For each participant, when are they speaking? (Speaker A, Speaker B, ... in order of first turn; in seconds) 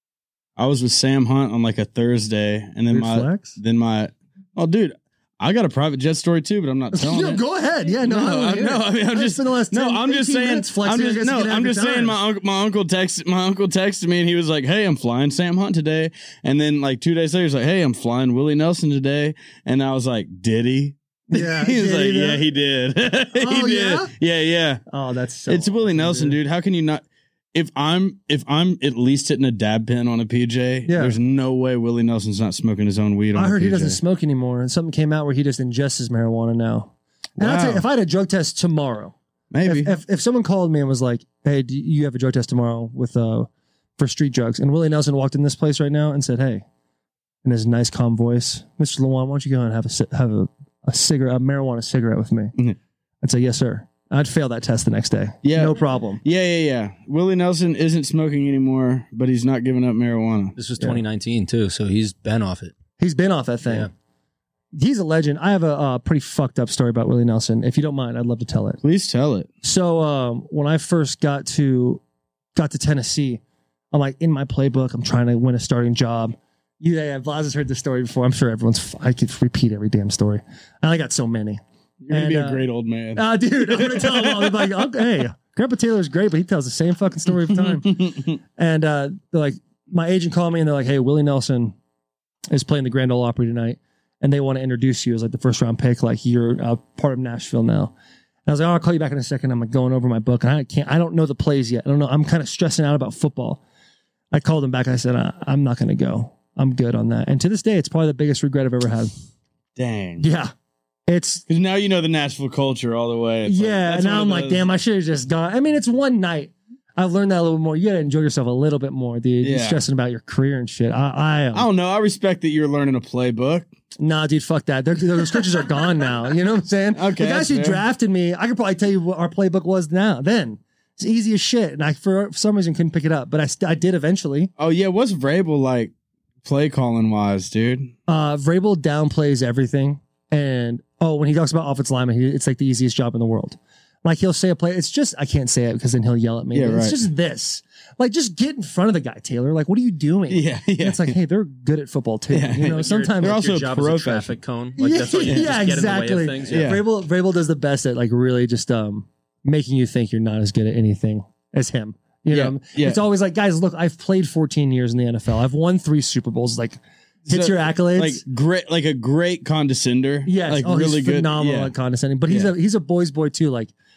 Speaker A: 0.6-7.4, 8.0-24.8, 25.5-34.0, 37.4-37.8, 39.5-39.9, 55.4-60.5, 68.8-69.5, 82.0-84.7, 87.5-88.4, 109.8-110.3, 111.5-114.7, 119.4-119.8, 121.5-123.7, 126.9-127.8, 134.6-135.9, 136.4-137.9, 146.5-147.0, 150.3-151.2, 152.3-154.4, 155.2-155.5, 156.5-156.8, 162.3-163.0, 167.3-171.7, 172.3-172.5
Speaker B: 2.9-3.6, 6.9-12.2, 21.3-22.4, 23.3-24.1, 24.9-26.4, 30.9-31.2, 33.4-46.6, 47.4-52.5, 53.2-56.2, 63.0-63.9, 64.7-68.8, 69.6-72.0, 72.5-73.4, 73.9-82.6, 83.2-91.8, 92.5-97.9, 98.5-103.6, 104.3-109.1, 110.2-110.5, 111.1-111.4, 113.5-121.7, 124.0-134.5, 138.1-153.4, 154.8-168.2, 170.3-173.7
Speaker C: 60.6-62.7, 152.9-156.8